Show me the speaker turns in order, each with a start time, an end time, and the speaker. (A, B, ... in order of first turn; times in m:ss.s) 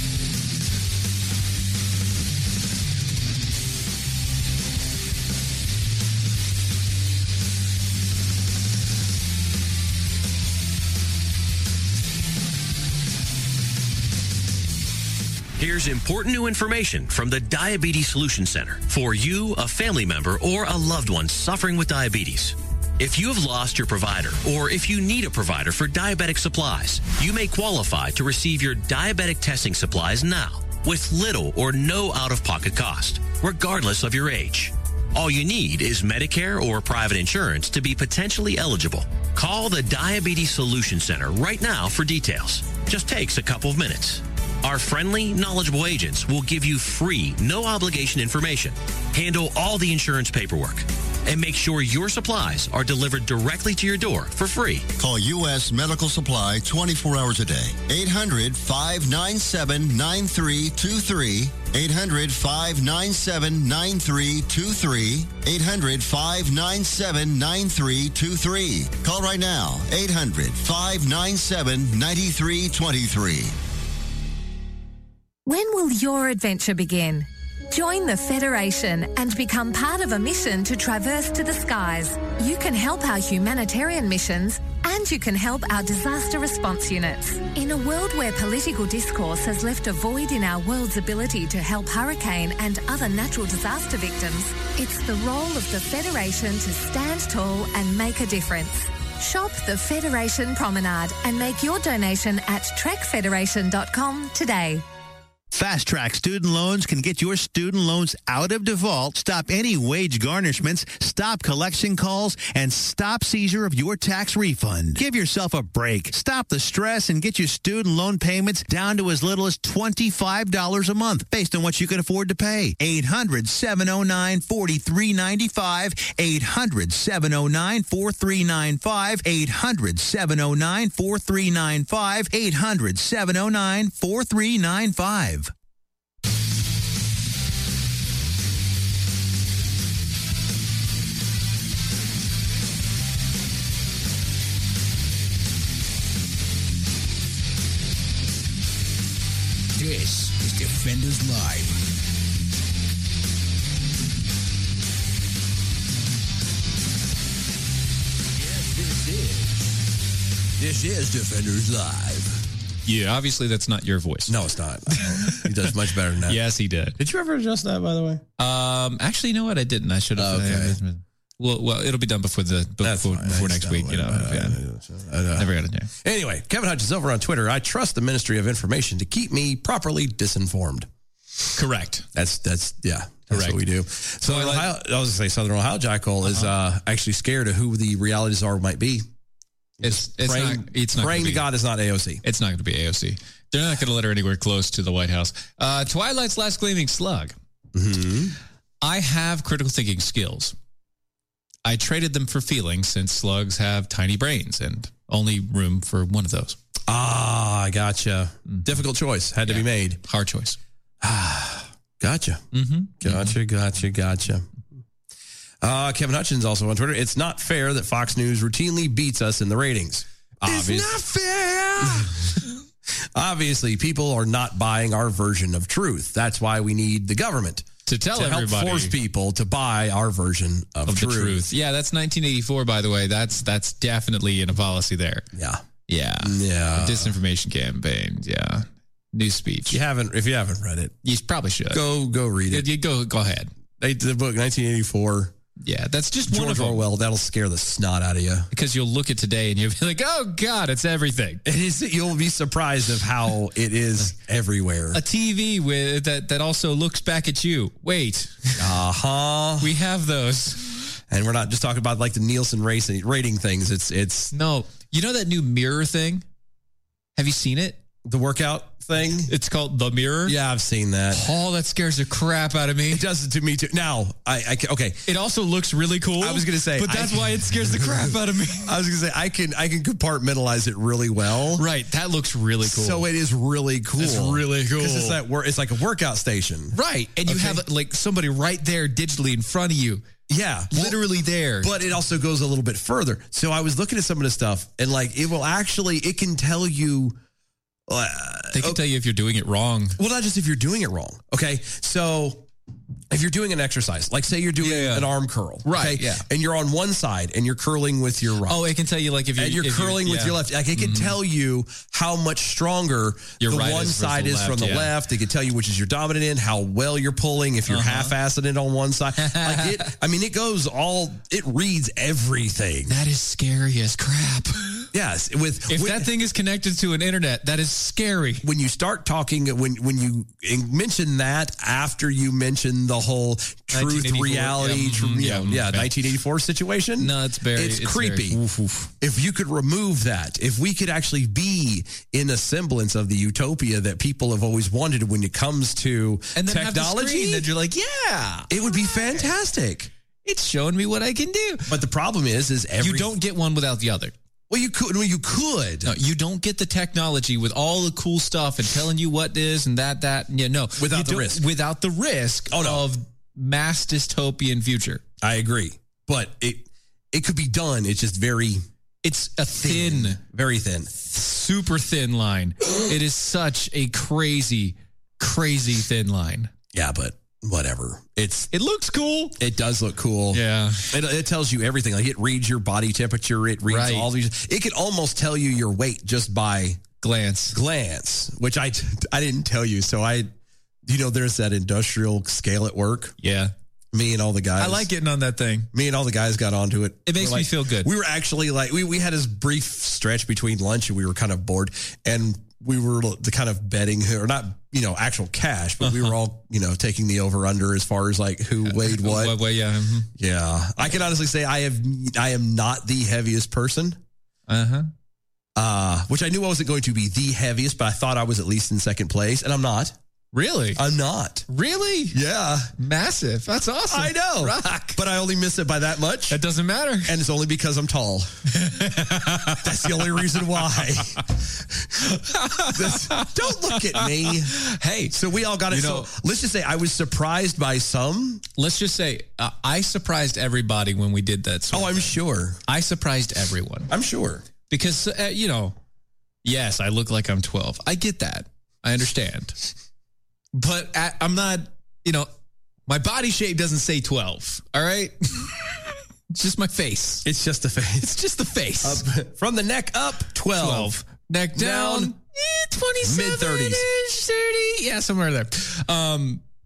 0:15.6-0:54.9 A
0:55.0-1:13.5 B
1:15.4-1:44.8 C
1:45.5-2:15.5 D
2:29.8-2:31.8 E
2:38.4-2:39.5 F
2:40.6-2:42.4 F
2:42.8-2:44.4 G
2:44.3-2:46.4 F
2:44.9-2:45.7 G
2:46.2-2:47.0 G
2:47.0-2:48.2 F
2:48.4-2:54.6 G
2:50.2-2:50.8 F
2:52.8-2:55.5 F
2:55.4-2:55.9 G
2:56.0-3:00.9 F
3:01.6-3:02.0 G
3:02.1-3:09.0 F
3:03.3-3:03.6 G
3:04.2-3:04.7 G
3:06.2-3:06.5 G
3:09.8-3:12.2 F
3:09.8-3:11.4 G
3:12.2-3:17.3 G
3:17.7-3:18.4 F
3:18.8-3:20.5 G
3:21.6-3:26.6 G
3:26.9-3:30.0 F
3:29.4-3:30.6 G
3:31.0-3:32.4 F
3:32.5-3:33.4 G
3:33.0-3:34.4 F
3:35.6-3:40.9 F
3:40.4-3:42.5 G
3:41.8-3:42.1 F
3:43.1-3:51.4 F
3:47.9-3:48.9 G
3:50.9-3:55.2 G
3:55.3-3:55.6 F
3:55.9-3:59.8 G
3:56.2-3:57.1 F
3:59.7-4:00.9 F
4:01.0-4:01.9 G
4:01.7-4:02.7 F
4:02.5-4:03.5 G
4:03.8-4:05.3 F
4:05.6-4:06.8 G
4:06.3-4:08.5 F
4:08.5-4:11.4 G
4:11.4-4:15.0 F
4:14.9-4:18.6 G
4:18.6-4:19.7 F
4:19.6-4:21.0 G
4:21.1-4:24.3 F
4:24.3-4:26.2 G
4:27.2-4:27.8 G
4:28.0-4:29.3 F
4:29.3-4:30.4 G
4:30.2-4:31.3 F
4:31.1-4:33.0 G
4:32.9-4:35.0 F
4:35.1-4:38.8 G
4:36.2-4:41.6 F
4:41.5-4:43.0 G
4:42.6-4:47.6 F
4:44.0-4:45.2 G
4:46.7-4:50.0 G
4:50.3-4:51.0 F
4:50.7-4:51.8 G
4:51.6-4:57.2 F
4:57.9-4:58.8 F
4:58.5-5:00.0 G
5:00.0-5:02.5 F
5:03.1-5:08.6 F
5:04.6-5:05.1 G
5:05.6-5:06.2 G
5:08.4-5:11.2 G
5:09.4-5:22.9 F
5:13.4-5:14.9 G
5:17.7-5:18.1 G
5:19.2-5:19.9 G
5:22.9-5:24.8 G
5:24.9-5:26.1 F
5:25.7-5:28.4 G
5:28.4-5:38.4 F
5:33.7-5:35.9 G
5:37.0-5:38.9 G
5:39.0-5:47.5 F
5:46.3-5:49.3 G
5:48.5-5:49.9 F
5:50.2-5:51.7 G
5:51.7-5:53.1 F
5:52.8-5:54.1 G
5:54.5-5:55.9 F
5:55.8-6:05.0 G
6:00.8-6:01.4 F
6:02.5-6:02.8 F
6:05.2-6:08.6 F
6:09.0-6:10.2 G
6:09.6-6:10.9 F
6:11.0-6:16.5 G
6:16.7-6:18.5 F
6:18.5-6:19.4 G
6:19.4-6:26.8 F
6:20.3-6:20.9 G
6:23.7-6:24.1 G
6:27.0-6:27.6 G
6:27.5-6:30.3 F
6:30.8-6:33.1 F
6:33.2-6:33.5 G
6:33.9-6:34.9 F
6:34.6-6:35.7 G
6:35.7-6:49.4 F
6:37.1-6:37.9 G
6:45.8-6:46.1 G
6:48.6-6:50.1 G
6:50.2-6:54.0 F
6:54.5-6:54.9 G
6:55.6-6:59.9 F
7:00.3-7:00.8 G
7:00.8-7:01.4 F
7:01.5-7:02.2 G
7:02.1-7:02.7 F
7:02.8-7:05.0 G
7:03.9-7:06.4 F
7:06.3-7:07.2 G
7:07.0-7:08.3 F
7:08.6-7:09.6 G
7:09.5-7:12.0 F
7:12.1-7:15.1 G
7:12.7-7:14.6 F
7:15.1-7:18.4 F
7:15.7-7:16.1 G
7:18.6-7:23.9 G
7:21.7-7:22.6 F
7:23.9-7:24.4 F
7:24.7-7:25.7 G
7:26.4-7:29.7 G
7:30.5-7:32.3 G
7:32.9-7:37.2 G
7:37.2-7:38.1 F
7:38.0-7:39.0 G
7:38.8-7:40.9 F
7:40.6-7:46.4 G
7:41.6-7:42.1 F
7:43.0-7:43.8 F